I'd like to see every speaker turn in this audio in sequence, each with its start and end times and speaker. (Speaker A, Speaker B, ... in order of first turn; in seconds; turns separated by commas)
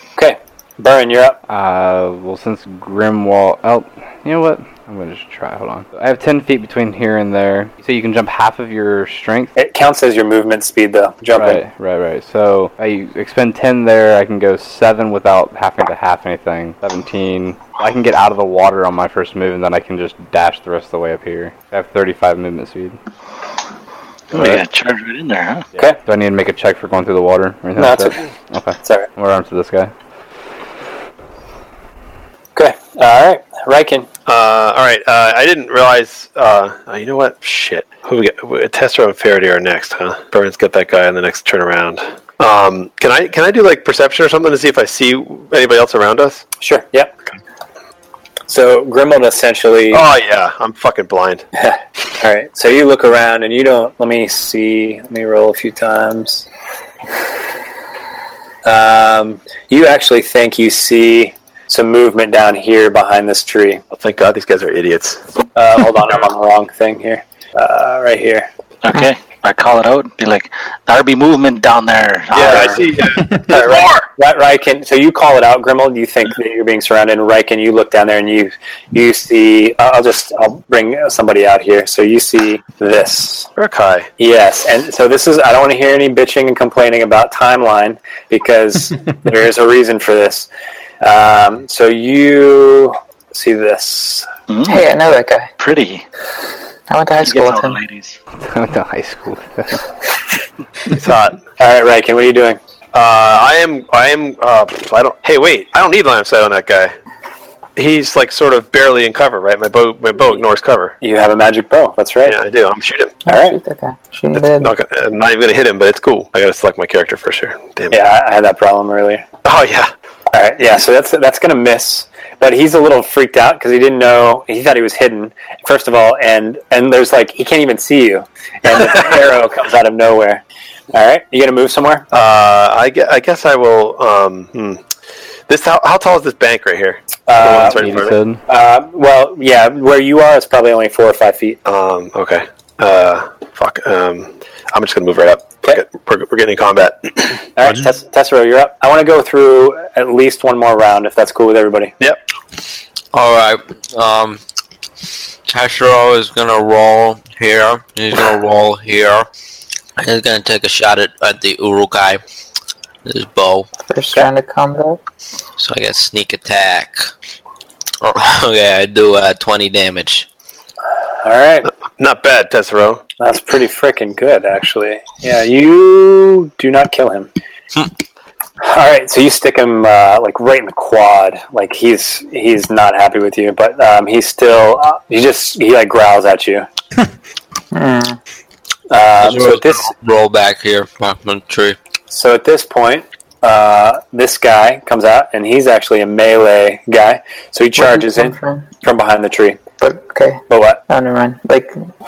Speaker A: 0.2-1.4, Speaker B: 1.5-9.5, Speaker A: 9.6-11.6, Speaker B: 11.3-23.0, Speaker B: 24.3-24.6, Speaker C: 24.3-25.7, Speaker B: 26.0-29.9, Speaker A: 27.8-28.2, Speaker A: 32.6-34.1, Speaker D: 34.3-46.4, Speaker A: 46.6-47.1, Speaker A: 48.5-50.0, Speaker D: 49.9-51.4, Speaker A: 51.6-56.5, Speaker A: 58.6-63.8, Speaker D: 63.9-65.2, Speaker A: 65.6-68.5, Speaker C: 68.8-72.8, Speaker D: 72.3-74.0, Speaker A: 72.4-72.8, Speaker A: 73.4-83.5, Speaker D: 83.6-84.1, Speaker A: 84.2-90.5, Speaker A: 91.0-94.3, Speaker C: 94.5-94.9, Speaker E: 94.7-95.5, Speaker C: 95.6-96.0, Speaker E: 96.9-97.8, Speaker C: 97.2-98.2, Speaker B: 98.4-99.8, Speaker D: 100.9-101.4, Speaker A: 101.6-102.6, Speaker D: 102.9-106.9, Speaker D: 107.8-111.0, Speaker A: 111.0-112.4, Speaker D: 112.3-113.2, Speaker E: 113.3-114.7, Speaker A: 113.3-113.6, Speaker D: 114.4-118.0, Speaker A: 117.9-119.2, Speaker D: 119.5-119.9, Speaker A: 120.3-132.1, Speaker D: 132.1-134.8, Speaker D: 135.5-138.2, Speaker A: 137.3-141.6, Speaker B: 137.4-138.4, Speaker D: 141.7-147.5, Speaker A: 147.6-151.9, Speaker F: 153.1-154.4, Speaker F: 155.5-159.3, Speaker F: 160.0-162.2, Speaker F: 163.1-163.7, Speaker E: 163.9-165.0, Speaker F: 165.6-167.1, Speaker F: 168.0-170.3, Speaker A: 171.2-171.7, Speaker D: 171.9-173.0, Speaker A: 173.2-177.3, Speaker A: 178.6-186.7, Speaker E: 187.7-188.2, Speaker A: 188.9-189.9, Speaker F: 189.2-191.8, Speaker A: 192.1-199.6, Speaker E: 197.8-198.7, Speaker E: 199.8-201.8, Speaker A: 200.5-200.8